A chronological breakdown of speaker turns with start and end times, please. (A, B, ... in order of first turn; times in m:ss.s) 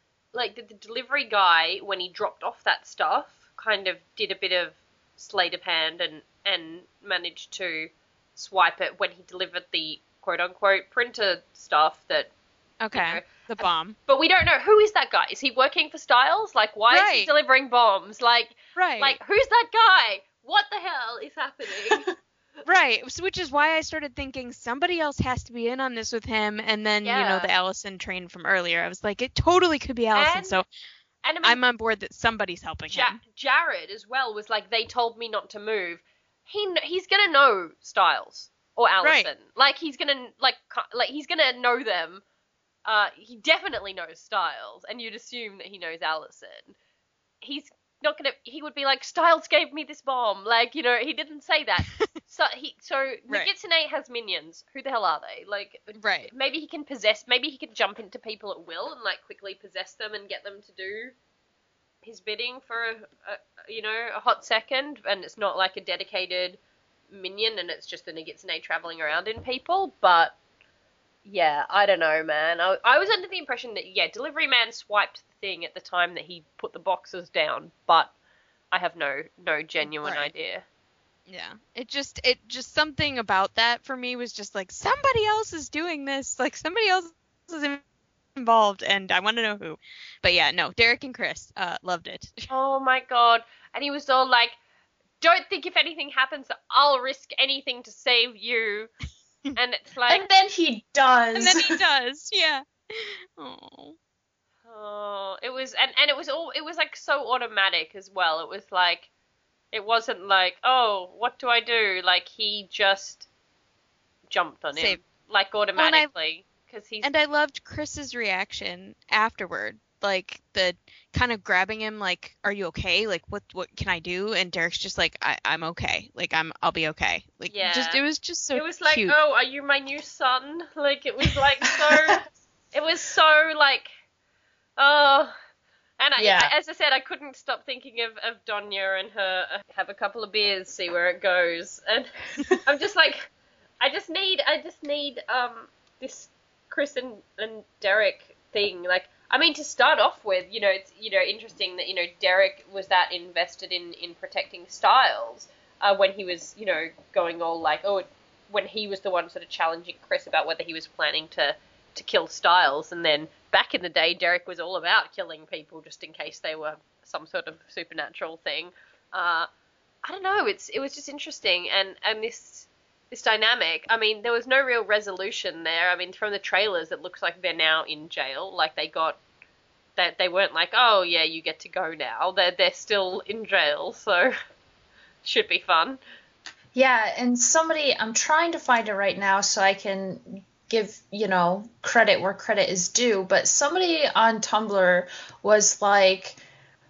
0:00.3-0:12.3 A
0:12.8-0:14.0 B
0:12.9-0:22.1 A
0:16.9-0:17.3 B
0:18.8-0:19.2 B
0:21.9-0:22.1 C
0:22.6-0:30.6 B
0:27.0-0:27.5 A
0:30.1-0:30.6 A
0:31.2-0:31.6 A
0:31.4-0:33.2 B
0:32.9-0:42.2 A
0:39.0-0:39.3 B
0:42.8-0:46.7 A
0:47.4-1:01.1 A
0:51.8-0:52.1 B
0:56.0-0:56.3 B
1:02.0-1:06.6 A
1:07.1-1:10.4 A
1:11.2-1:18.1 A
1:18.7-1:20.6 A
1:19.8-1:20.3 B
1:21.3-1:27.8 B
1:28.4-1:32.5 B
1:32.5-1:34.6 A
1:35.2-1:38.9 A
1:39.6-1:40.3 A
1:40.1-1:41.7 C
1:41.4-1:44.0 B
1:44.7-1:49.1 A
1:49.7-1:53.2 A
1:54.3-1:57.1 A
1:54.7-1:55.0 B
1:55.8-1:56.1 B
1:57.0-2:09.2 B
2:07.5-2:08.0 A
2:08.5-2:13.9 A
2:14.8-2:15.3 A
2:16.0-2:22.1 A
2:16.2-2:16.5 C
2:22.6-2:49.5 A
2:50.0-2:59.2 A
3:00.0-3:04.3 A
3:05.2-3:06.0 A
3:06.7-3:16.4 C